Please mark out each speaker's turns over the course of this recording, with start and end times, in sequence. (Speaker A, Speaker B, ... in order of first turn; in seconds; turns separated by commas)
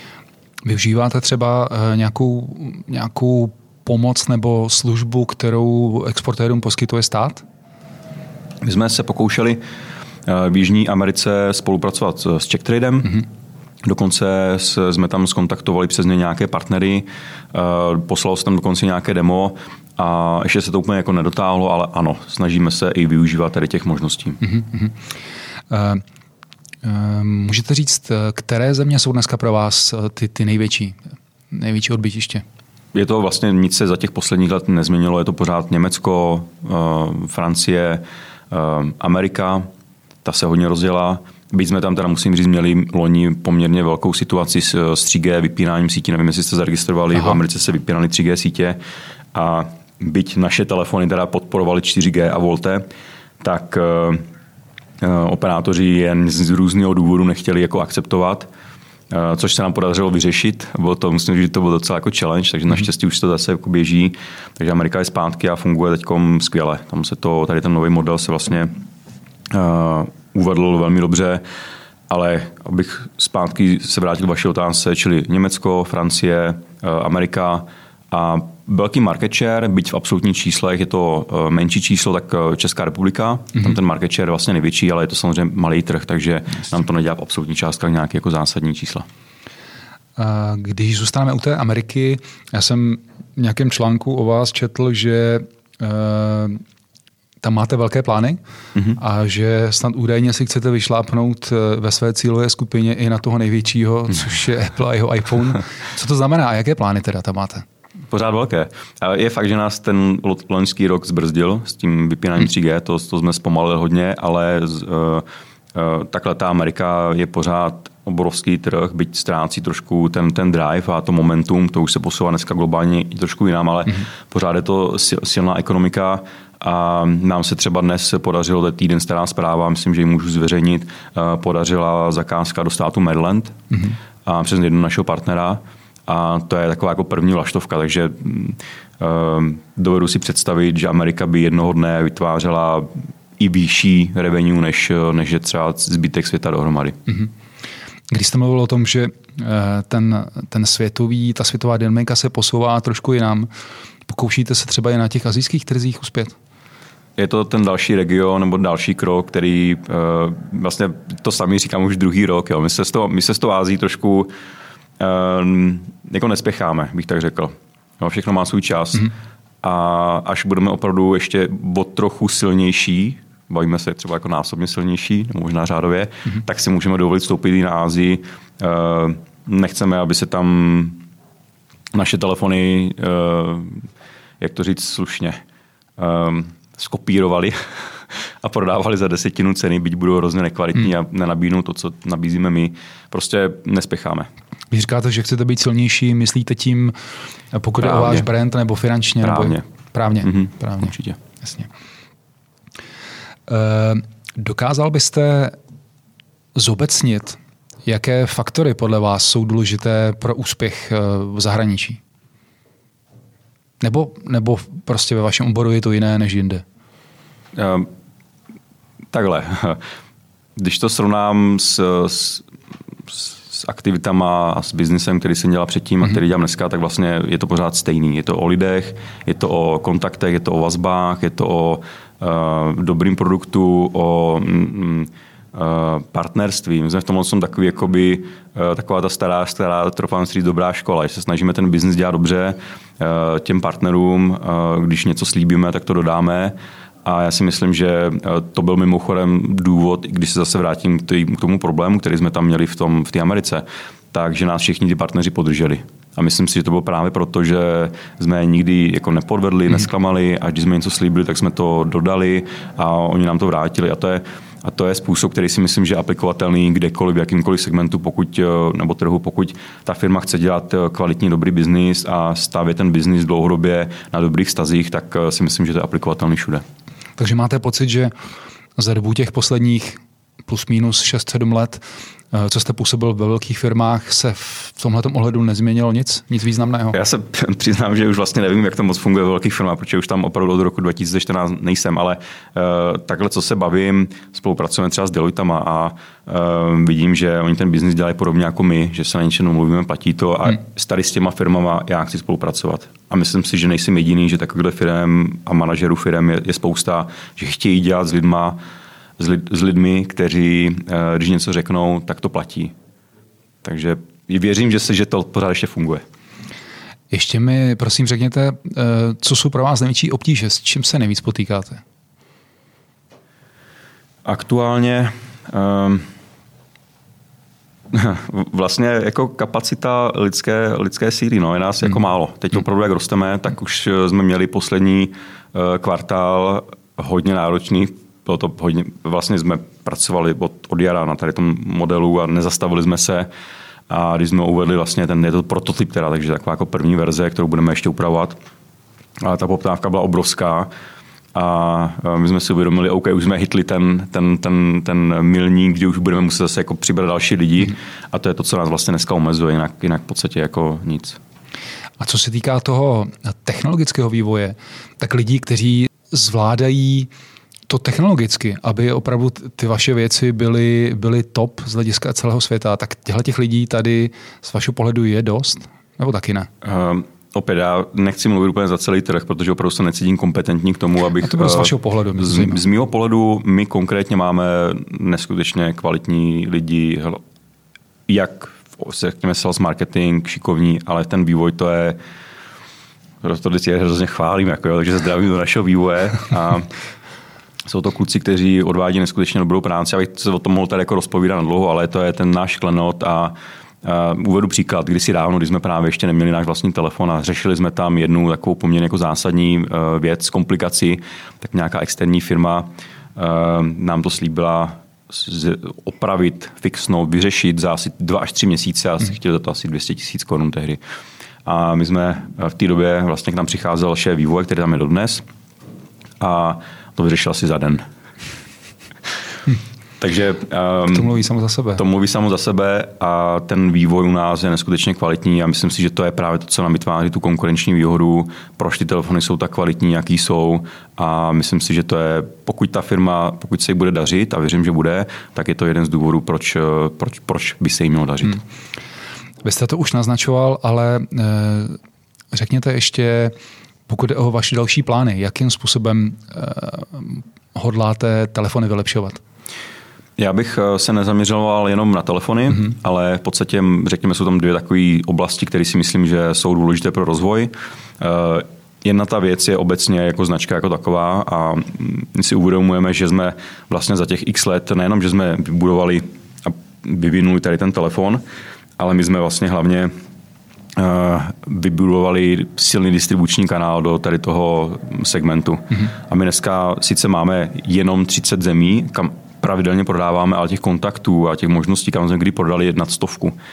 Speaker A: 0.7-7.4, Speaker B: 8.6-9.6, Speaker B: 10.3-13.2, Speaker B: 13.8-24.4, Speaker A: 24.4-24.9, Speaker A: 25.7-26.0, Speaker A: 26.8-31.0, Speaker A: 31.5-32.4, Speaker B: 32.9-39.7, Speaker B: 40.2-48.8, Speaker B: 49.3-52.8, Speaker B: 53.4-54.2, Speaker B: 55.0-58.5, Speaker B: 59.1-68.7, Speaker B: 69.5-71.4, Speaker B: 72.1-89.0, Speaker A: 90.2-96.6, Speaker A: 97.4-98.4, Speaker A: 98.9-107.6, Speaker B: 108.1-147.0, Speaker A: 148.1-153.5, Speaker A: 154.1-156.3, Speaker B: 157.2-164.3, Speaker B: 165.0-181.0, Speaker B: 181.9-183.9, Speaker B: 184.4-185.4, Speaker B: 186.0-194.3, Speaker A: 194.7-196.9, Speaker A: 197.5-201.7, Speaker B: 197.8-198.3, Speaker B: 199.2-199.6, Speaker B: 200.2-201.2, Speaker A: 203.5-205.6, Speaker A: 206.6-212.0, Speaker A: 213.8-216.6, Speaker B: 217.5-217.9, Speaker B: 219.1-219.8, Speaker B: 220.6-222.5, Speaker B: 223.1-276.6, Speaker A: 277.2-278.1, Speaker A: 278.8-287.0, Speaker B: 286.9-308.6, Speaker B: 309.2-312.7, Speaker B: 313.6-316.0, Speaker A: 317.1-321.8, Speaker B: 324.2-326.1, Speaker B: 327.9-343.3, Speaker B: 343.9-348.4, Speaker B: 349.2-350.7, Speaker B: 351.3-361.2, Speaker A: 362.0-367.1, Speaker A: 367.7-376.5, Speaker B: 376.6-387.2, Speaker A: 381.2-382.6, Speaker B: 388.1-392.0, Speaker B: 393.2-396.7, Speaker B: 397.6-420.8, Speaker B: 421.4-425.2, Speaker B: 426.2-427.8, Speaker B: 430.0-431.1, Speaker A: 430.9-431.8, Speaker B: 431.8-448.4, Speaker A: 449.4-451.8, Speaker A: 452.3-453.3, Speaker A: 453.9-459.2, Speaker B: 460.2-478.2, Speaker B: 478.8-479.9, Speaker B: 480.8-493.4